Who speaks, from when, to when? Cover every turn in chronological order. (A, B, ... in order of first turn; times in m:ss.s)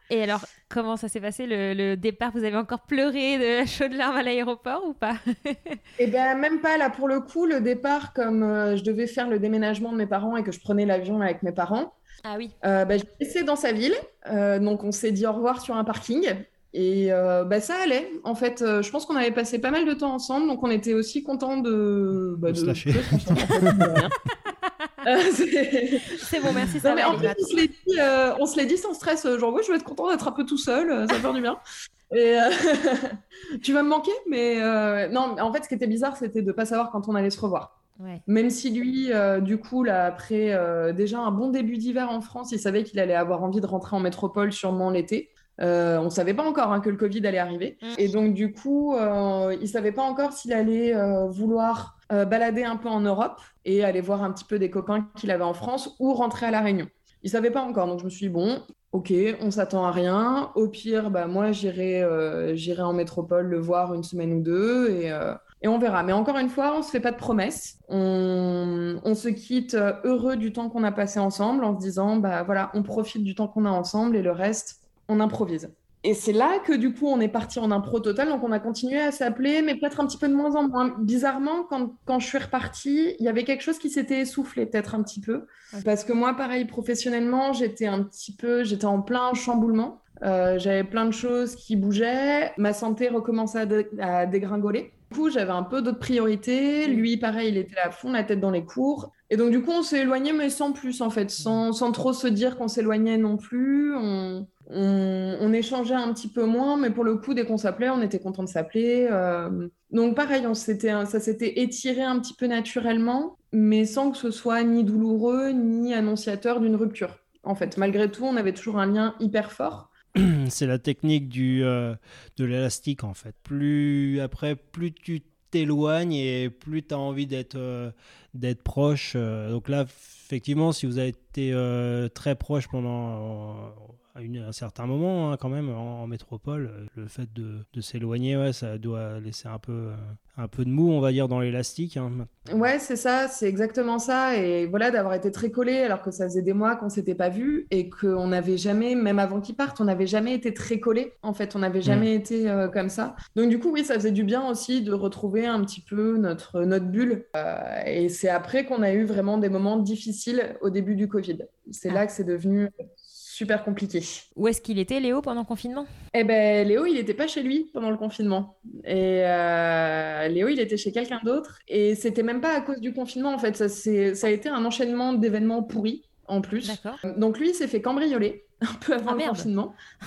0:00.1-0:05.8 A
0:06.0-0:11.9 B
0:12.2-0:12.5 A
0:12.6-0:24.1 B
0:22.5-0:24.0 C
0:24.6-0:24.9 A
0:25.0-0:26.2 B
0:26.1-0:27.6 A
0:26.8-0:37.8 B
0:38.3-1:59.9 B
0:47.8-0:48.1 A
2:00.2-2:22.3 C
2:22.5-2:44.3 B
2:44.4-2:45.9 A
2:46.1-2:59.8 B
2:56.6-2:57.0 A
2:59.1-2:59.5 A